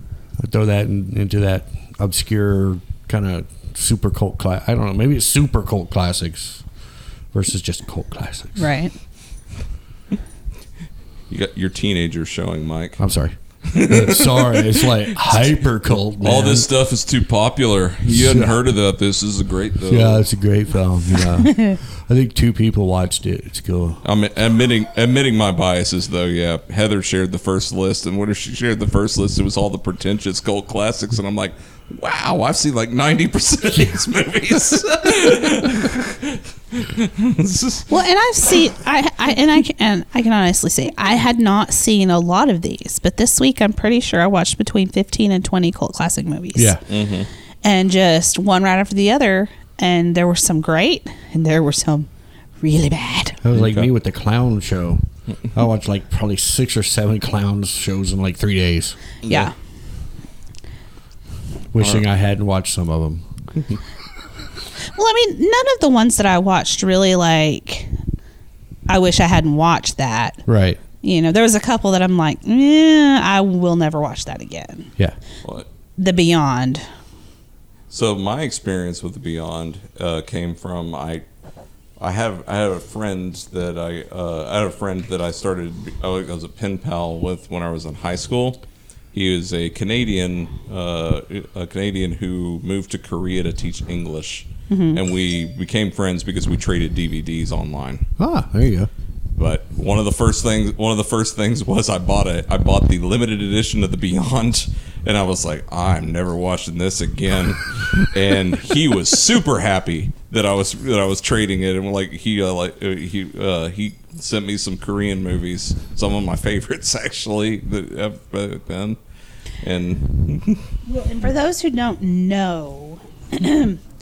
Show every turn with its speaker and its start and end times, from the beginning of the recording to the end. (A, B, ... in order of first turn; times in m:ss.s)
0:00.4-0:06.6 A
0:07.3-0:08.7 A
0:08.6-0:08.9 B
0:11.3-0:13.0 C
0:13.0-0:16.7 A
0:13.7-0:15.4 C
0:16.2-0:20.2 C
0:18.0-0:18.6 A
0:19.9-0:24.0 A
0:24.0-0:37.9 C
0:37.9-0:46.8 B
0:46.6-0:46.8 A
0:46.9-0:47.3 C
0:47.6-0:53.4 B
0:53.4-0:59.0 A
0:53.5-0:53.9 C
0:59.2-0:59.5 C
0:59.3-0:59.5 B
1:01.7-1:03.2 A
1:01.8-1:02.0 C
1:04.9-1:07.9 B
1:08.9-1:10.4 B
1:10.5-1:10.8 A
1:11.0-1:14.9 B
1:16.0-1:16.8 B
1:17.9-1:21.2 C
1:22.0-1:28.6 C
1:29.1-1:38.0 C
1:34.7-1:35.0 B
1:38.2-1:38.9 A
1:39.4-1:59.0 C
1:59.6-2:00.6 C
2:00.9-2:03.8 B